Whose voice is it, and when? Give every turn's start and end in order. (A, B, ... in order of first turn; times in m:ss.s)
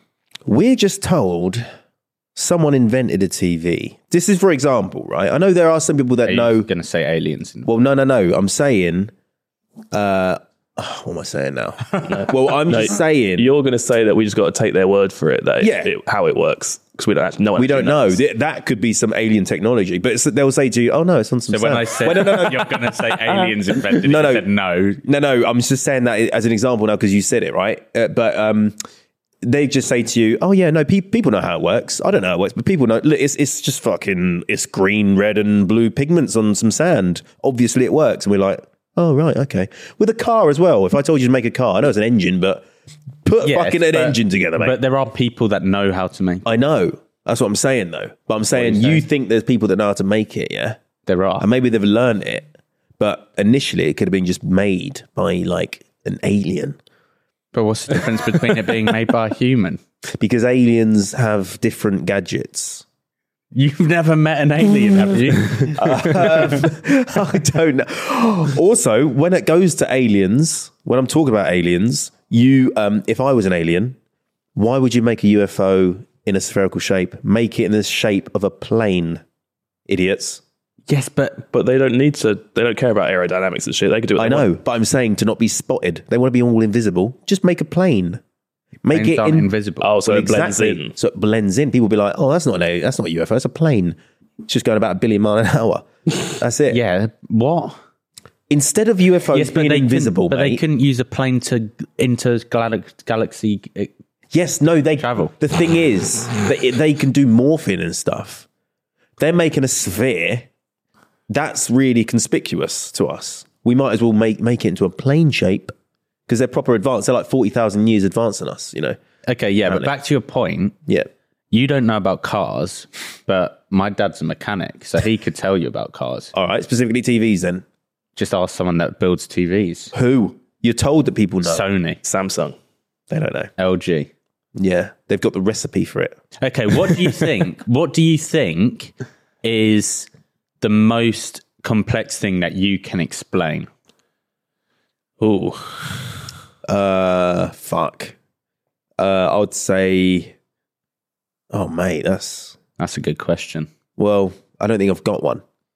0:00.4-0:01.6 A
0:02.3-0:06.7 A
0:06.2-0:07.7 B
0:07.6-0:09.1 A
0:09.9-0:13.5 A
0:12.1-0:18.2 C
0:15.6-0:15.9 A
0:17.6-0:24.4 A
0:21.5-0:25.0 B
0:25.0-0:28.8 A
0:29.4-0:42.6 A
0:43.2-0:44.7 A
0:43.4-0:46.4 B
0:46.4-0:50.8 A
0:48.5-0:49.0 B
0:51.0-0:51.5 B
0:51.4-0:52.4 A
0:53.0-0:56.8 A
0:57.5-0:59.8 B
1:00.2-1:02.8 A
1:03.5-1:06.6 B
1:05.6-1:14.0 A
1:05.8-1:06.2 C
1:14.6-1:19.2 A
1:19.9-1:20.4 A
1:20.9-1:21.4 B
1:21.5-1:24.5 C
1:24.2-1:28.2 A
1:28.8-1:29.5 A
1:28.9-1:29.9 B
1:29.8-1:30.9 C
1:30.0-1:36.8 A
1:36.7-1:37.8 B
1:38.5-1:40.6 A
1:39.3-1:43.9 B
1:44.3-1:48.5 A
1:45.0-1:45.3 B
1:49.2-1:50.5 A
1:51.3-1:55.7 A
1:56.3-1:59.0 A
1:59.3-2:00.8 B
2:01.5-2:06.3 B
2:06.3-2:07.6 A
2:08.2-2:09.9 B
2:09.9-2:11.6 A
2:11.4-2:12.0 B
2:12.0-2:12.6 C
2:13.1-2:13.5 A
2:13.6-2:14.1 B
2:14.6-2:16.1 A
2:16.4-2:20.1 B
2:20.6-2:23.7 B
2:25.2-2:26.1 C
2:26.6-2:28.1 A
2:29.0-2:30.3 A
2:31.5-2:32.6 A
2:32.8-2:33.7 B
2:34.0-2:35.4 A